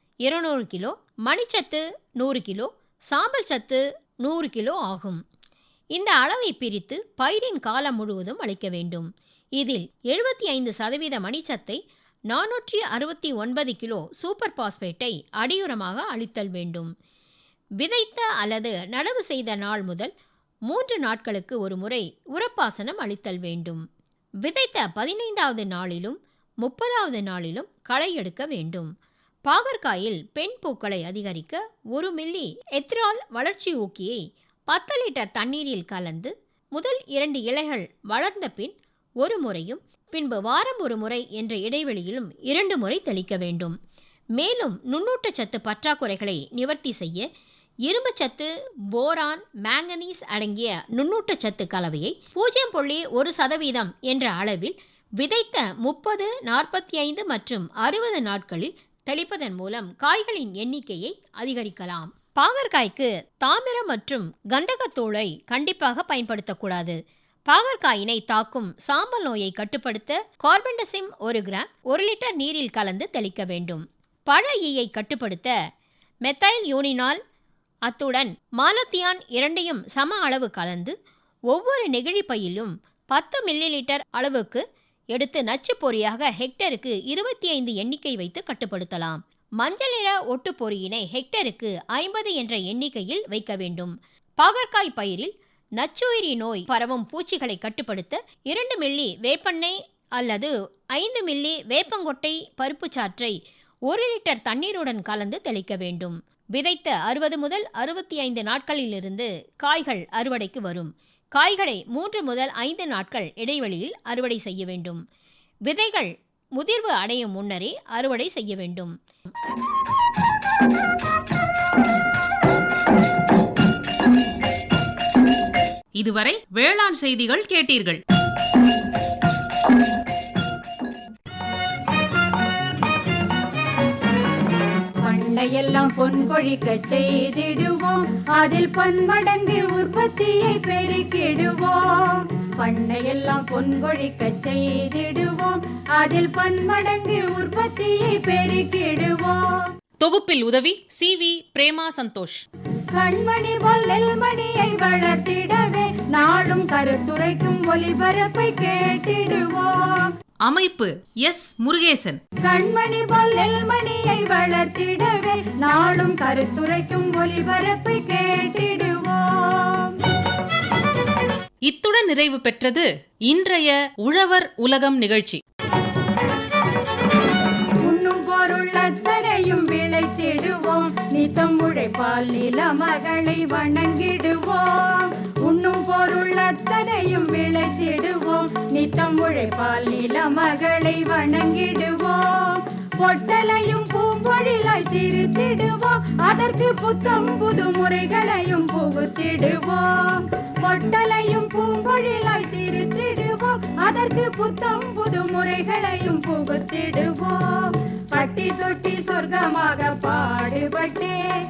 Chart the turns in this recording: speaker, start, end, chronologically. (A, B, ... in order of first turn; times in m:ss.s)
0:00.2-0:05.2 A
0:05.9-0:11.8 A
0:12.3-0:16.9 A
0:17.8-0:20.1 A
0:20.7-0:23.8 A
0:24.4-0:28.9 A
0:29.4-0:43.7 A
0:44.4-0:47.2 A
0:47.8-1:07.0 A
1:07.5-1:15.5 A
1:16.2-1:17.2 A
1:17.8-1:20.9 A
1:21.5-1:43.4 A
1:43.9-1:55.0 A
1:55.7-1:58.9 A
2:06.0-2:08.0 B
2:15.0-2:29.6 C
2:30.0-2:32.4 B
2:32.9-2:40.1 C
2:40.4-2:42.2 B
2:42.4-2:50.0 C
2:51.6-2:55.4 B
2:57.8-3:31.2 C